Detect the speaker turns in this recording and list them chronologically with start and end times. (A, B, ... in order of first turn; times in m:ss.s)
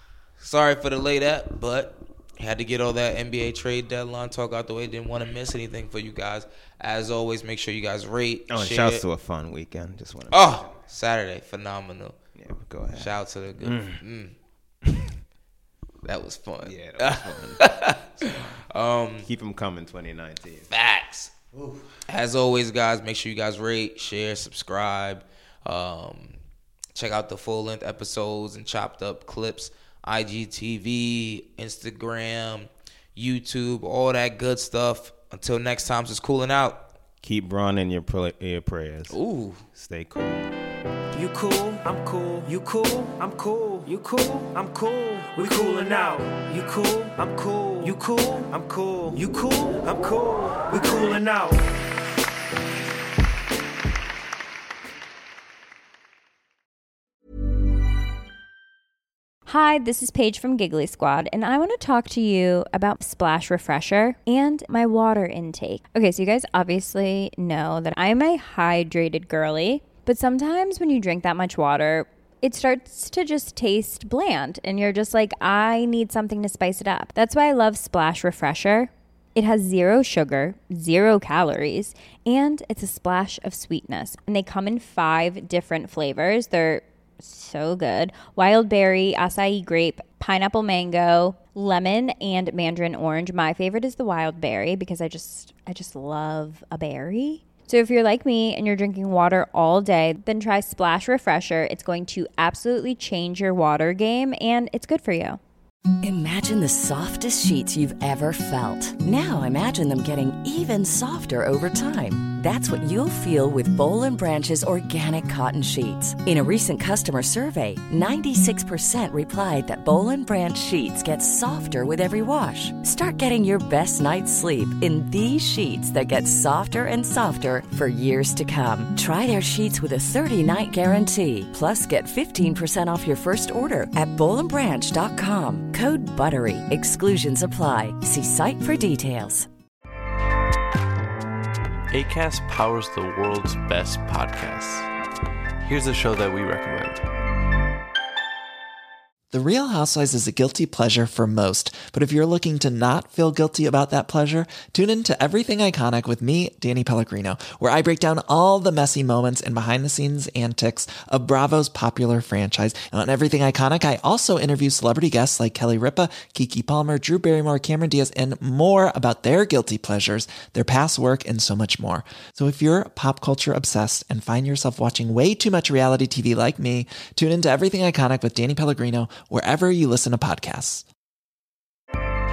0:00.4-0:09.0 A
0:08.5-0:10.7 B
0:10.3-0:12.2 A
0:12.3-0:14.0 B
0:12.9-0:14.3 A
0:16.0-0:19.3 A
0:16.6-0:17.6 B
0:19.2-0:20.7 B
0:20.7-0:21.3 A
0:21.5-0:21.9 B
0:22.0-0:26.4 A
0:26.9-0:36.8 A
0:37.2-0:39.2 B
0:39.1-0:39.6 A
0:39.7-0:40.5 B
0:41.1-0:51.6 C
0:59.5-1:45.4 D
1:46.0-2:19.5 E
2:21.9-2:24.9 F
2:25.6-2:27.0 F
2:29.3-3:00.8 G